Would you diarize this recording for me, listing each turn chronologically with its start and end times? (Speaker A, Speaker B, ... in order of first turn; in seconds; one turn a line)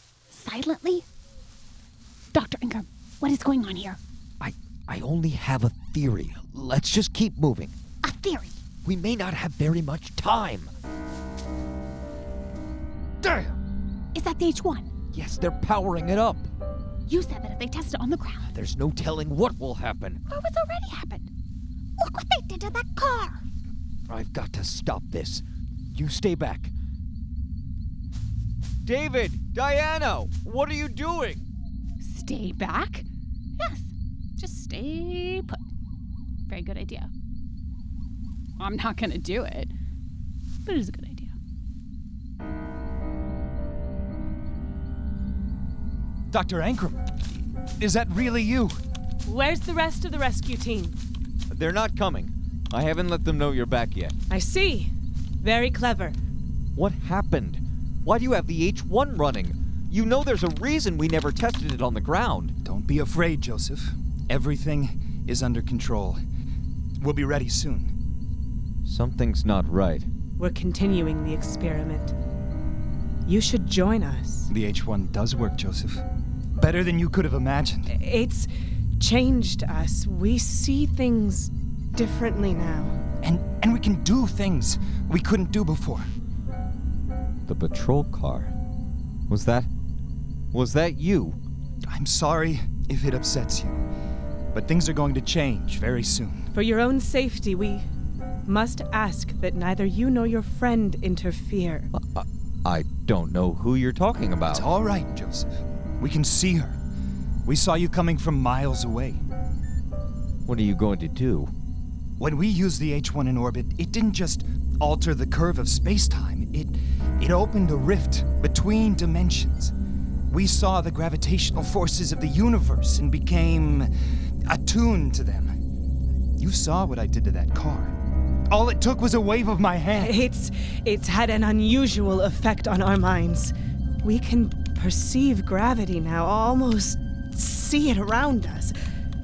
Speaker A: 0.3-1.1
Speaker A: 2.3-4.0
Speaker B: 4.4-7.7
Speaker A: 8.0-8.6
Speaker B: 8.8-10.7
Speaker A: 14.1-14.9
Speaker B: 15.1-16.5
Speaker A: 17.1-18.5
Speaker B: 18.5-20.2
Speaker A: 20.3-21.3
Speaker A: 22.0-23.4
Speaker B: 24.1-26.7
Speaker B: 28.9-31.5
Speaker A: 32.0-33.1
Speaker A: 33.6-35.6
Speaker A: 36.5-37.1
Speaker A: 38.6-39.7
Speaker A: 40.7-41.3
Speaker C: 46.3-47.0
Speaker C: 47.8-48.8
Speaker D: 49.3-51.0
Speaker B: 51.5-54.2
Speaker D: 54.3-54.9
Speaker D: 55.4-56.2
Speaker B: 56.8-62.6
Speaker C: 62.6-66.2
Speaker C: 67.0-67.9
Speaker B: 68.8-70.1
Speaker D: 70.4-72.1
Speaker D: 73.3-74.5
Speaker C: 74.5-77.9
Speaker D: 77.9-78.5
Speaker D: 79.0-83.0
Speaker C: 83.2-86.1
Speaker B: 87.5-88.5
Speaker B: 89.3-89.7
Speaker B: 90.5-91.4
Speaker C: 91.9-93.8
Speaker C: 94.5-96.5
Speaker D: 96.5-97.8
Speaker D: 98.5-101.9
Speaker B: 101.9-104.7
Speaker C: 104.5-106.8
Speaker C: 107.5-109.2
Speaker B: 110.5-111.5
Speaker C: 112.2-119.7
Speaker C: 120.3-123.9
Speaker C: 124.5-125.6
Speaker C: 126.4-127.9
Speaker C: 128.5-130.2
Speaker D: 129.9-138.8